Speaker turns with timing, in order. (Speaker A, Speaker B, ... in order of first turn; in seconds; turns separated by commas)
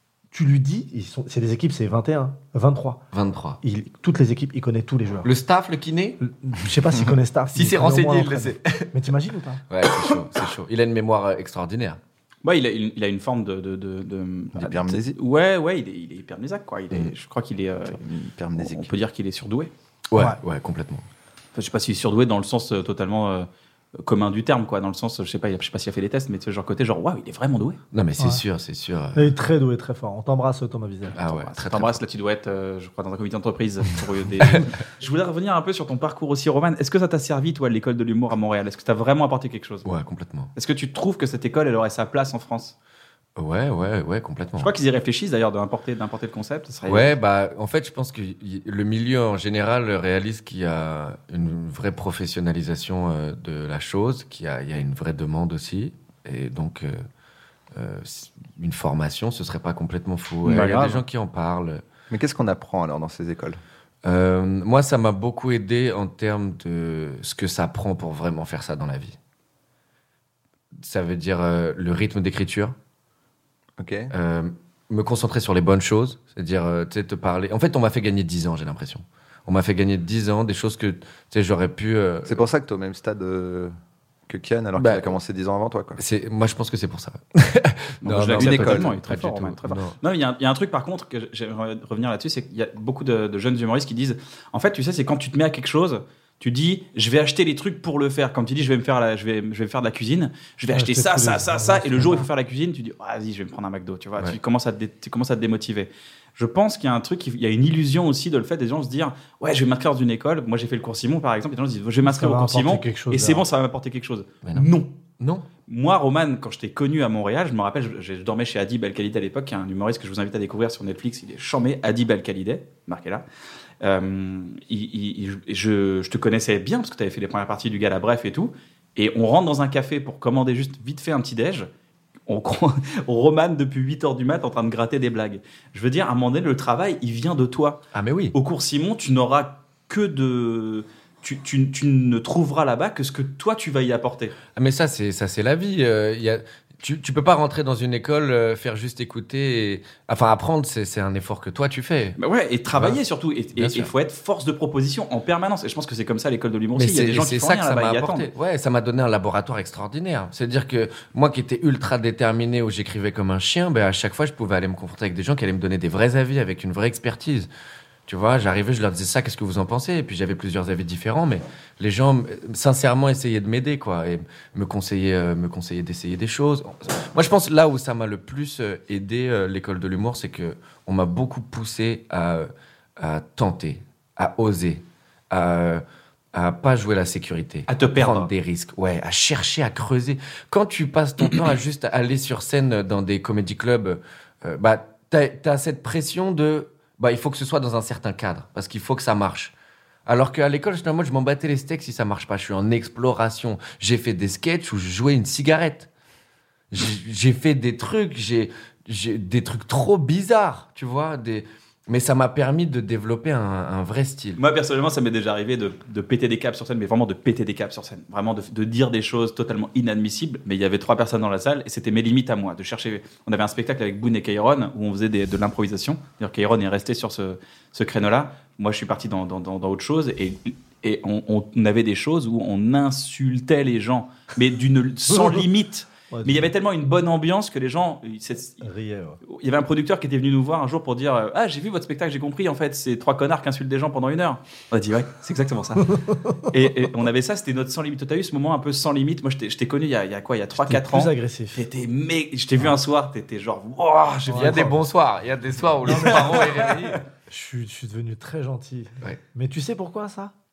Speaker A: 0.3-3.0, Speaker B: 3.1-3.6, Speaker A: 3.6-5.3, Speaker B: 5.2-6.2, Speaker A: 6.2-9.6, Speaker B: 7.5-9.0, Speaker B: 9.7-12.0, Speaker C: 12.4-18.0, Speaker D: 14.6-15.2, Speaker D: 18.0-18.9, Speaker C: 18.6-19.7, Speaker B: 20.1-21.1, Speaker C: 21.6-27.8, Speaker B: 27.9-29.3, Speaker A: 29.1-31.2, Speaker B: 31.1-32.0, Speaker C: 31.2-39.9, Speaker B: 39.9-40.5, Speaker C: 40.5-42.8, Speaker B: 43.4-44.7, Speaker C: 44.6-47.1, Speaker B: 46.9-57.0, Speaker B: 57.7-61.8, Speaker D: 60.5-61.0, Speaker D: 62.1-63.6, Speaker B: 64.0-69.2, Speaker B: 70.8-72.8, Speaker D: 73.8-74.1, Speaker B: 74.1-82.4, Speaker D: 82.3-83.8, Speaker D: 84.3-86.0, Speaker B: 84.8-85.2, Speaker B: 86.0-90.0, Speaker C: 88.0-115.0, Speaker D: 88.4-88.9, Speaker A: 100.7-102.3, Speaker A: 112.0-113.5, Speaker B: 114.5-115.5, Speaker C: 115.7-123.2, Speaker C: 123.8-131.7, Speaker C: 132.3-144.4, Speaker B: 137.9-138.4, Speaker B: 144.6-152.2, Speaker C: 152.2-158.3, Speaker B: 152.7-153.0, Speaker B: 153.6-153.9, Speaker B: 156.8-167.5, Speaker B: 168.1-199.5, Speaker C: 187.7-188.3, Speaker B: 200.1-205.9, Speaker B: 206.7-214.4, Speaker C: 214.4-238.7, Speaker A: 236.1-236.5, Speaker A: 238.6-239.2, Speaker C: 239.3-246.0, Speaker A: 246.1-246.4, Speaker C: 246.5-254.8, Speaker A: 250.6-251.7, Speaker A: 254.3-254.8, Speaker B: 254.3-257.0, Speaker A: 255.8-256.7, Speaker C: 256.1-256.8, Speaker A: 257.3-260.3